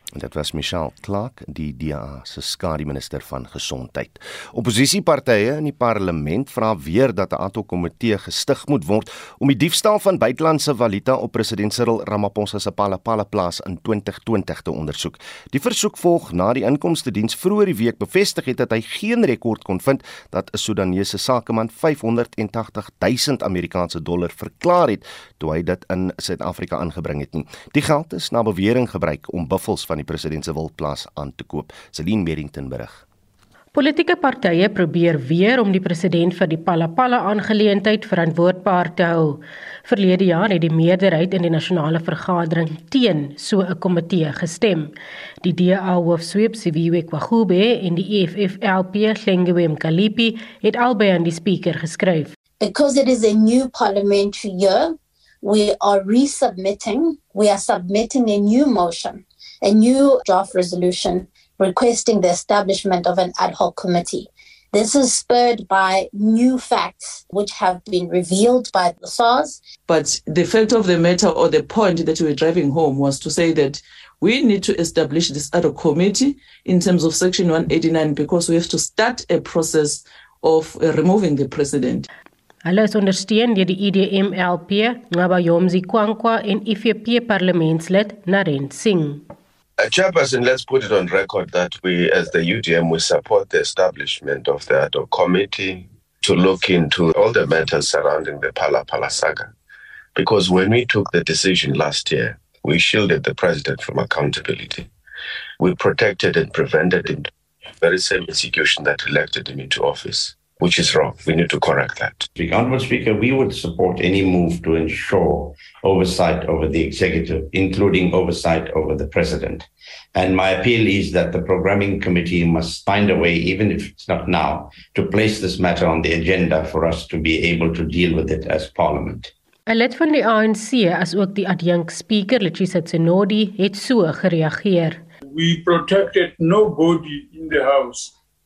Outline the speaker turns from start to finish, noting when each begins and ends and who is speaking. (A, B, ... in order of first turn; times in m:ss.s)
0:00.1-0:33.0 A
0:33.7-0:52.3 B
0:52.6-1:09.6 C
1:09.9-1:22.1 D
1:22.6-1:29.2 B
1:29.8-1:39.5 E
1:40.2-1:44.9 E
1:45.6-1:47.3 E
1:47.8-1:52.3 E
1:52.3-2:09.3 F
2:09.7-2:15.0 B
2:15.2-2:18.1 G